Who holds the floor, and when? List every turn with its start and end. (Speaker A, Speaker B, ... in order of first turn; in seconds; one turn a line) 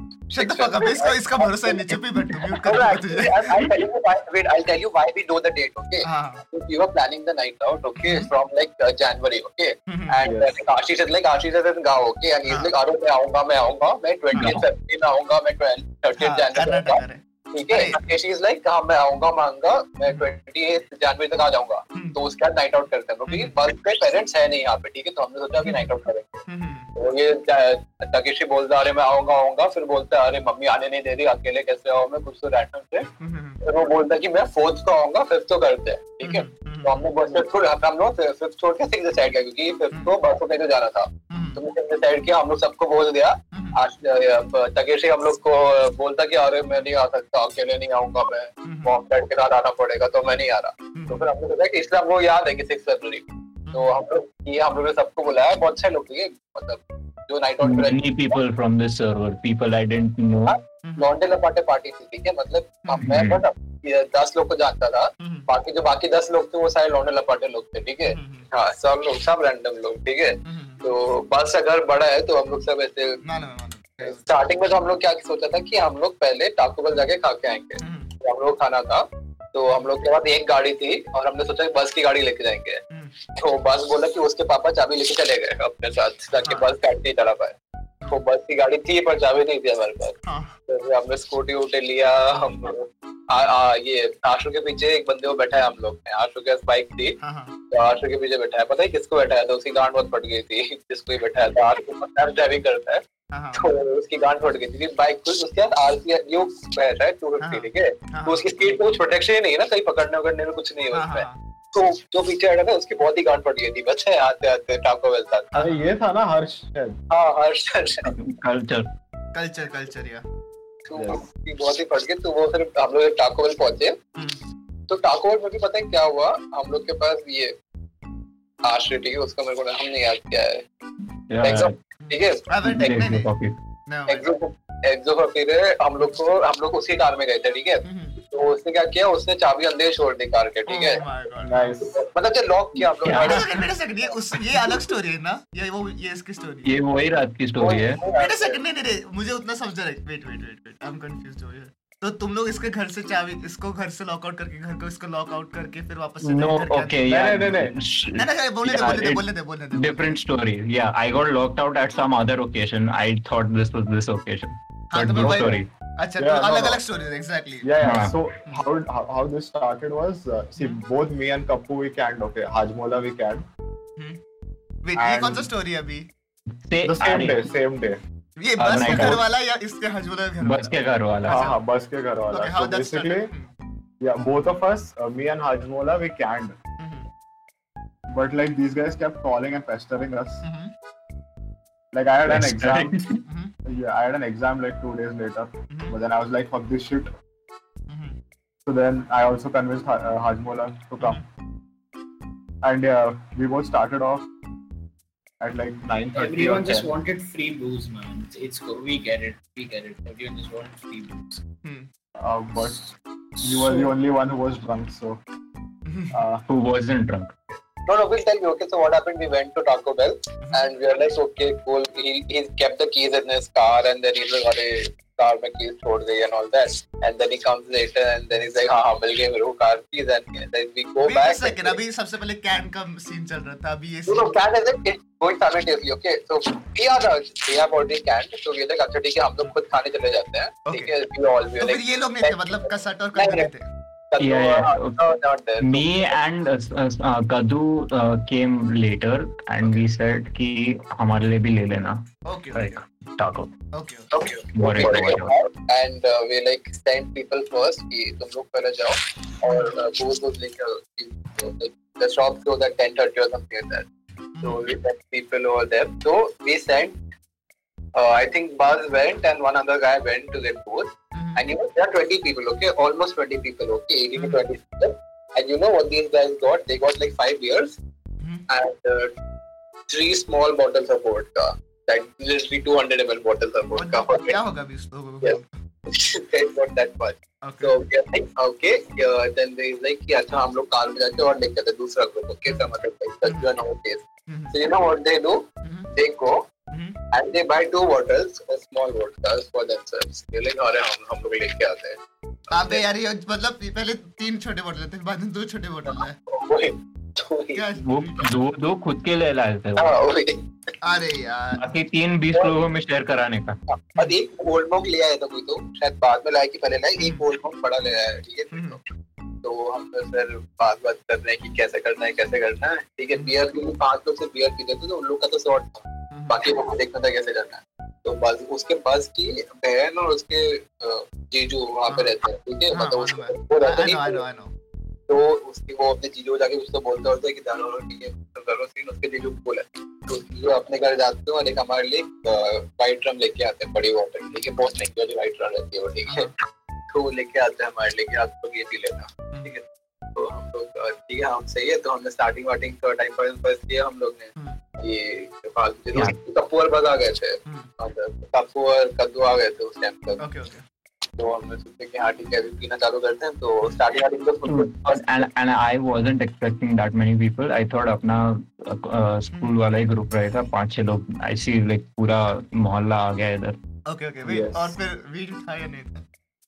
Speaker A: 0.3-3.8
Speaker B: 0.3-1.9
Speaker B: 2.6-17.0
Speaker A: 6.0-6.4
Speaker A: 8.0-8.3
Speaker A: 9.9-10.3
Speaker C: 10.2-10.6
Speaker A: 14.3-14.6
Speaker D: 14.3-14.6
Speaker A: 16.2-18.0
Speaker B: 17.5-33.1
Speaker A: 23.3-23.5
Speaker A: 26.5-26.9
Speaker A: 33.2-33.6
Speaker B: 33.6-58.3
Speaker A: 36.2-37.0
Speaker A: 41.3-41.6
Speaker A: 43.5-43.8
Speaker A: 48.6-48.9
Speaker A: 50.9-51.3
Speaker D: 57.6-60.5
Speaker B: 60.4-73.2
Speaker A: 62.8-63.1
Speaker D: 63.0-63.4
Speaker A: 65.2-65.5
Speaker A: 68.1-68.5
Speaker A: 70.4-70.8
Speaker A: 73.2-74.4
Speaker B: 74.0-82.8
Speaker A: 77.8-78.1
Speaker B: 83.4-87.5
Speaker A: 86.4-86.7
Speaker B: 88.0-90.2
Speaker A: 90.2-90.5
Speaker B: 90.7-97.2
Speaker A: 97.2-97.5
Speaker B: 97.7-103.0
Speaker A: 103.3-103.6
Speaker B: 103.5-115.5
Speaker A: 107.4-108.5
Speaker A: 110.9-111.4
Speaker A: 115.5-115.9
Speaker C: 115.5-117.0
Speaker B: 117.1-118.1
Speaker D: 118.0-118.9
Speaker A: 119.3-120.2
Speaker B: 120.9-124.0
Speaker B: 124.9-127.5
Speaker B: 128.6-130.6
Speaker D: 131.3-131.7
Speaker B: 131.4-132.4
Speaker A: 132.0-133.3
Speaker D: 132.6-133.5
Speaker A: 133.9-134.3
Speaker B: 134.1-141.0
Speaker A: 137.8-138.2
Speaker A: 140.7-141.8
Speaker C: 141.4-141.9
Speaker B: 141.9-143.6
Speaker D: 143.0-143.5
Speaker A: 143.1-146.7
Speaker D: 146.6-148.0
Speaker B: 147.6-148.6
Speaker A: 148.1-157.1
Speaker D: 156.2-165.7
Speaker C: 157.1-157.7
Speaker A: 158.1-160.1
Speaker A: 164.9-167.7
Speaker C: 165.2-165.6
Speaker C: 166.2-166.8
Speaker C: 167.6-173.4
Speaker D: 167.8-168.1
Speaker A: 174.8-176.1
Speaker C: 175.0-175.5
Speaker D: 176.7-177.5
Speaker C: 176.8-178.0
Speaker A: 178.4-180.7
Speaker D: 178.6-179.2
Speaker C: 178.8-179.2
Speaker D: 180.4-181.5
Speaker A: 181.2-181.6
Speaker C: 181.3-183.3
Speaker A: 182.3-183.5
Speaker C: 184.0-186.5
Speaker A: 186.8-187.1
Speaker C: 188.1-190.4
Speaker A: 190.4-190.7
Speaker C: 191.9-193.0
Speaker D: 192.2-193.2
Speaker A: 193.3-193.5
Speaker C: 193.7-197.1
Speaker A: 195.7-196.0
Speaker A: 197.9-198.2
Speaker C: 198.7-201.2
Speaker A: 201.0-201.2
Speaker C: 202.6-204.2
Speaker C: 205.4-206.9
Speaker E: 206.2-211.4
Speaker A: 211.6-211.9
Speaker C: 212.2-215.2
Speaker E: 213.4-213.9
Speaker A: 215.9-216.2
Speaker C: 216.1-216.4
Speaker D: 216.5-217.3
Speaker B: 217.8-231.8
Speaker A: 231.0-234.4
Speaker B: 234.1-243.5
Speaker A: 240.7-240.9
Speaker A: 241.6-243.7
Speaker B: 244.1-246.0
Speaker D: 244.2-245.0
Speaker D: 245.6-253.5
Speaker A: 252.2-252.8
Speaker A: 253.7-254.1
Speaker B: 254.1-263.9
Speaker D: 254.5-255.3
Speaker A: 254.7-255.1
Speaker A: 264.4-264.6
Speaker B: 264.4-267.0
Speaker B: 267.9-277.8
Speaker A: 271.1-271.4
Speaker A: 274.1-274.4
Speaker B: 278.5-279.1
Speaker B: 279.9-284.4
Speaker A: 283.8-285.5
Speaker B: 285.2-296.4
Speaker A: 287.4-287.7
Speaker A: 293.2-293.5
Speaker A: 294.3-294.5
Speaker B: 297.1-302.0
Speaker A: 302.5-306.1
Speaker B: 302.5-302.8
Speaker B: 305.9-307.7
Speaker A: 307.5-308.3
Speaker D: 307.8-310.0
Speaker B: 309.8-310.4
Speaker A: 310.8-311.6
Speaker D: 311.6-313.6
Speaker B: 313.7-318.8
Speaker A: 317.0-317.2
Speaker A: 318.5-318.8
Speaker B: 319.4-334.2
Speaker A: 326.1-326.4
Speaker A: 332.7-334.5
Speaker B: 335.1-346.3
Speaker A: 346.1-346.3
Speaker B: 346.9-349.6
Speaker B: 350.1-360.2
Speaker A: 360.2-360.6
Speaker B: 361.1-365.2
Speaker D: 364.4-373.6
Speaker A: 373.9-376.0
Speaker C: 374.2-374.8